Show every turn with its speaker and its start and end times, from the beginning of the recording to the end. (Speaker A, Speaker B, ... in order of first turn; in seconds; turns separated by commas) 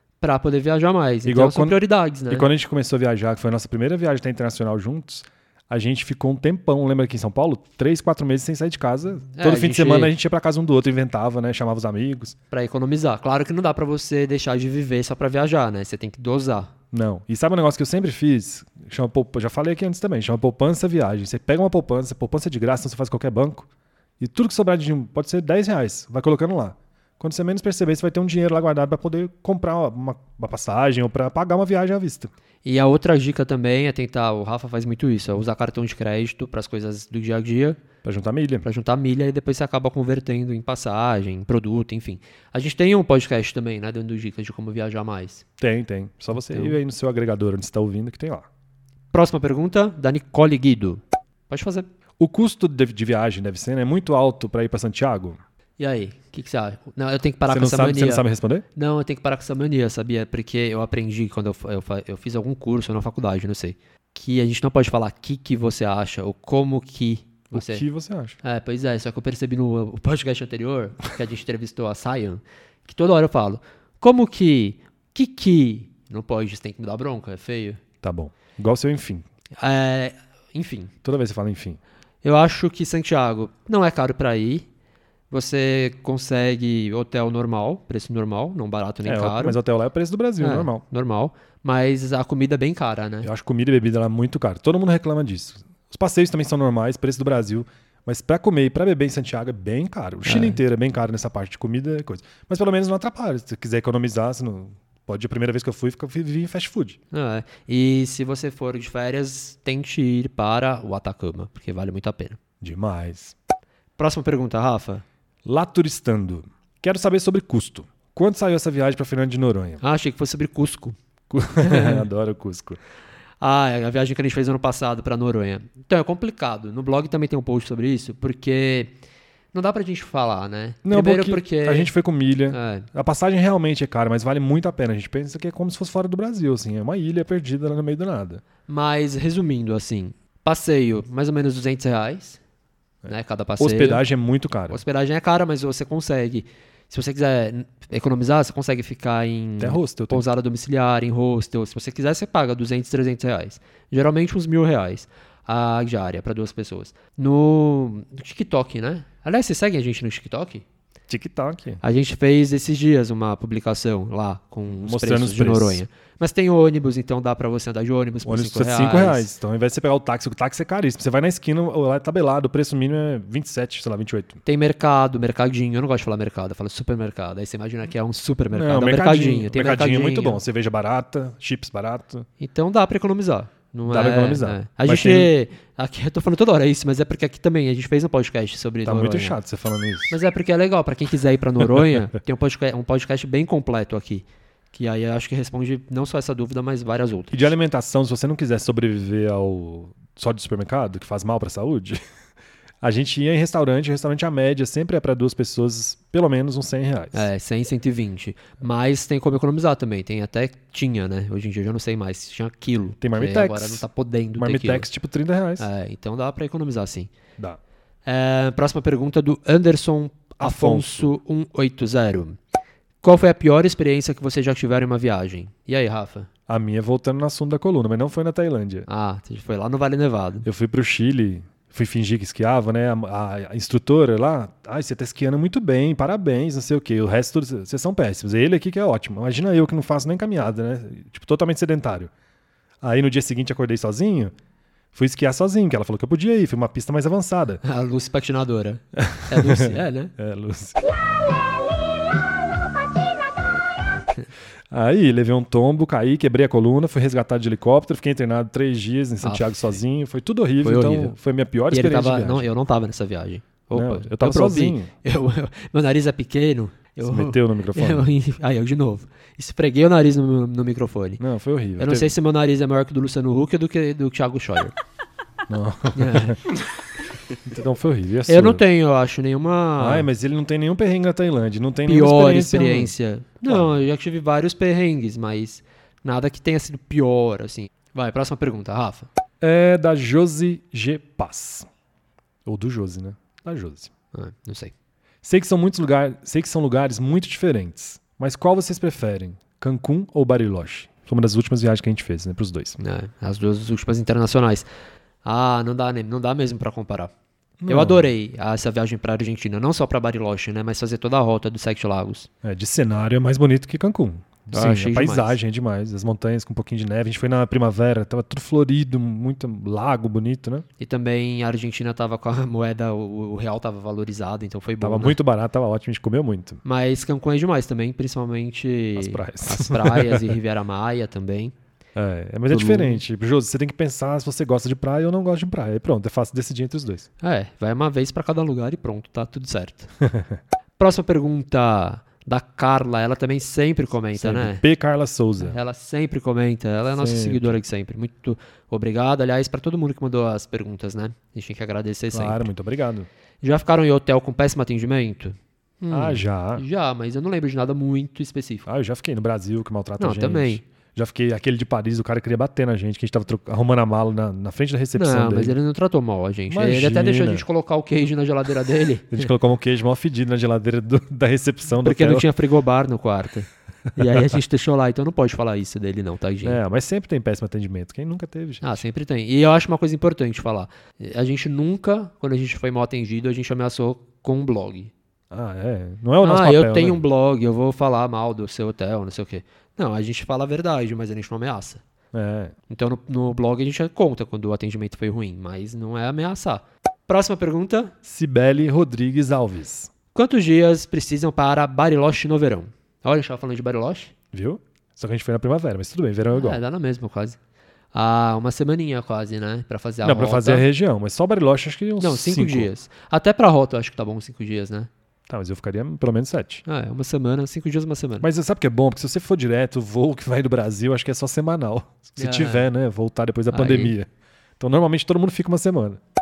Speaker A: 0.2-2.5, Speaker B: 1.2-12.3, Speaker A: 9.3-10.1, Speaker A: 12.5-16.7, Speaker B: 16.9-23.7, Speaker B: 24.2-32.3, Speaker A: 32.6-37.8, Speaker B: 38.0-38.6, Speaker A: 38.6-45.4, Speaker B: 45.6-48.5, Speaker A: 46.3-46.8, Speaker A: 49.1-51.9, Speaker B: 52.2-55.4, Speaker A: 55.8-67.8, Speaker B: 57.5-58.6, Speaker B: 67.5-68.4, Speaker A: 68.4-77.8, Speaker B: 78.0-79.2, Speaker A: 79.6-80.9, Speaker B: 81.0-81.8, Speaker A: 82.2-84.7, Speaker A: 85.3-89.6, Speaker B: 89.0-90.8, Speaker A: 90.4-93.3, Speaker B: 93.2-107.0, Speaker A: 100.2-100.6, Speaker A: 107.1-112.4, Speaker B: 112.6-113.3, Speaker A: 114.0-115.0, Speaker B: 115.4-119.8, Speaker A: 119.8-121.0, Speaker B: 121.3-122.8, Speaker A: 121.6-122.0, Speaker A: 123.4-128.9, Speaker A: 129.5-131.9, Speaker B: 130.8-138.4, Speaker A: 132.5-132.9, Speaker A: 138.7-142.4, Speaker B: 143.0-144.8, Speaker A: 143.1-144.0, Speaker A: 144.7-160.6, Speaker B: 149.6-150.3, Speaker B: 161.1-161.8, Speaker A: 161.8-169.2, Speaker B: 164.7-165.8, Speaker B: 168.2-174.4, Speaker A: 174.4-180.4, Speaker B: 178.5-182.2, Speaker A: 182.4-189.4, Speaker B: 183.8-185.3, Speaker B: 188.8-190.2, Speaker A: 190.1-197.5, Speaker B: 197.3-202.0, Speaker B: 202.8-207.3, Speaker A: 207.1-214.8, Speaker B: 213.0-213.8, Speaker B: 214.4-215.7, Speaker A: 215.6-217.1, Speaker A: 218.1-222.4, Speaker B: 220.4-221.1, Speaker A: 223.0-226.3, Speaker B: 226.5-228.8, Speaker A: 228.9-230.4, Speaker B: 230.4-242.1, Speaker B: 242.8-244.3, Speaker B: 244.9-247.6, Speaker A: 247.6-250.1, Speaker B: 248.9-250.8, Speaker B: 254.7-262.5, Speaker A: 259.2-259.6, Speaker A: 260.6-261.1, Speaker A: 261.7-271.2, Speaker B: 263.7-264.9, Speaker B: 267.0-268.1, Speaker B: 271.2-272.1, Speaker A: 271.8-274.7, Speaker B: 275.5-276.4, Speaker A: 275.9-276.4, Speaker B: 277.4-278.6, Speaker A: 278.3-280.1, Speaker B: 279.8-282.9, Speaker A: 281.9-289.1, Speaker B: 283.4-283.8, Speaker B: 289.4-291.7, Speaker B: 292.4-293.9, Speaker A: 294.1-294.7, Speaker B: 295.2-302.8, Speaker A: 302.8-304.7, Speaker A: 305.2-307.1, Speaker B: 307.6-308.1, Speaker A: 307.7-312.3, Speaker B: 312.4-320.6, Speaker A: 314.5-315.4, Speaker A: 320.8-325.1, Speaker B: 324.8-326.6, Speaker A: 326.6-331.5, Speaker B: 328.9-330.3, Speaker B: 331.9-337.1, Speaker A: 332.5-333.0, Speaker A: 337.2-339.9, Speaker B: 340.0-340.4, Speaker A: 340.8-344.6, Speaker B: 344.1-345.6, Speaker A: 345.4-352.5, Speaker B: 346.9-347.6, Speaker B: 352.1-353.1, Speaker A: 353.4-358.7, Speaker B: 355.9-356.6, Speaker B: 358.6-365.6, Speaker A: 360.0-360.6, Speaker A: 364.9-369.3, Speaker B: 366.5-367.4, Speaker B: 369.1-372.3, Speaker A: 371.8-376.6, Speaker B: 376.4-378.8, Speaker A: 378.6-384.9, Speaker B: 385.3-387.0, Speaker A: 386.2-391.8, Speaker B: 392.1-392.5, Speaker A: 392.7-397.9, Speaker B: 398.0-399.9, Speaker A: 400.1-404.1, Speaker B: 404.3-406.6, Speaker A: 406.3-407.4, Speaker A: 407.9-410.6, Speaker B: 410.0-412.7, Speaker A: 412.0-414.9, Speaker B: 415.3-416.6, Speaker A: 416.7-418.3, Speaker B: 418.2-426.0, Speaker A: 422.2-422.6, Speaker A: 423.5-423.9